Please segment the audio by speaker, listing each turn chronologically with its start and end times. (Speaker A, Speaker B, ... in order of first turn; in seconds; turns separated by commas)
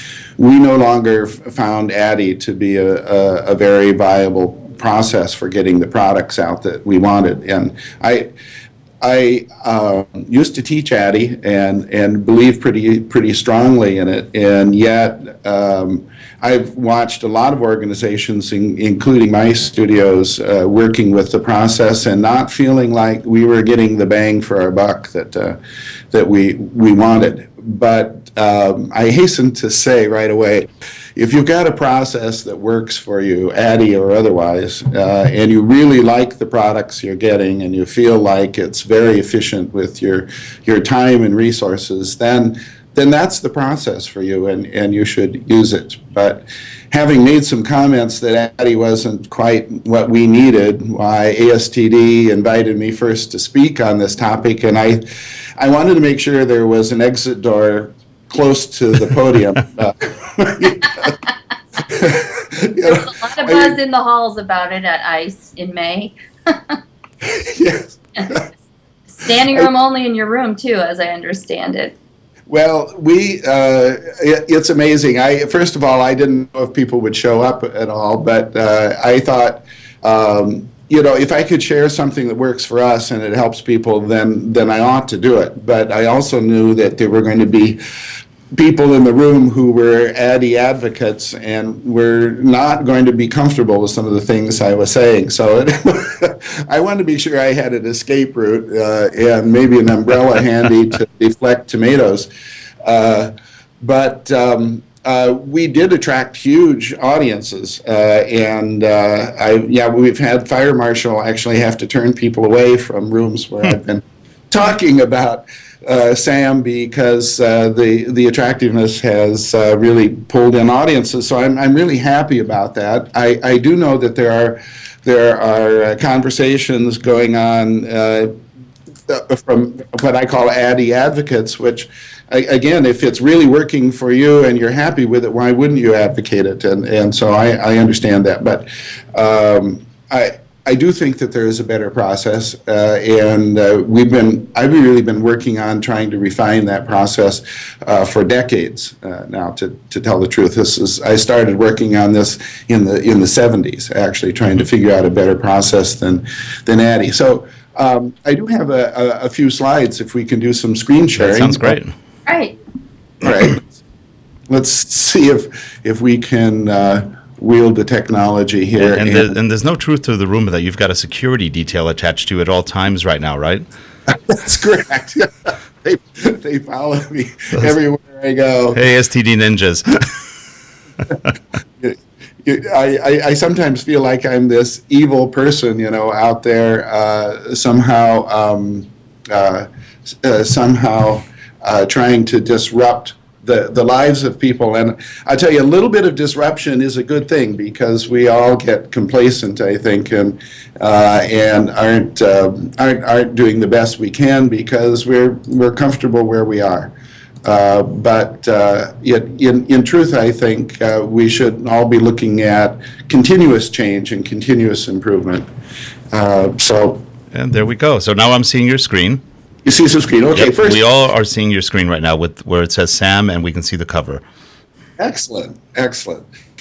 Speaker A: 0.4-8.3, Speaker A: 9.0-25.6, Speaker A: 26.1-55.0, Speaker A: 55.6-61.1, Speaker A: 61.9-63.8, Speaker B: 62.8-66.8, Speaker A: 67.2-68.5, Speaker B: 69.1-71.9, Speaker A: 72.5-87.8, Speaker A: 88.5-102.3, Speaker A: 102.8-128.3, Speaker A: 129.1-161.8, Speaker C: 161.2-161.9, Speaker B: 162.3-162.6, Speaker A: 163.2-163.7, Speaker A: 164.5-169.3, Speaker C: 168.8-173.6, Speaker A: 174.1-178.8, Speaker C: 178.7-180.3, Speaker A: 181.8-206.9, Speaker A: 207.4-215.5, Speaker A: 216.1-217.0, Speaker C: 217.3-219.2, Speaker A: 219.7-220.8, Speaker C: 220.3-224.2, Speaker A: 225.0-226.3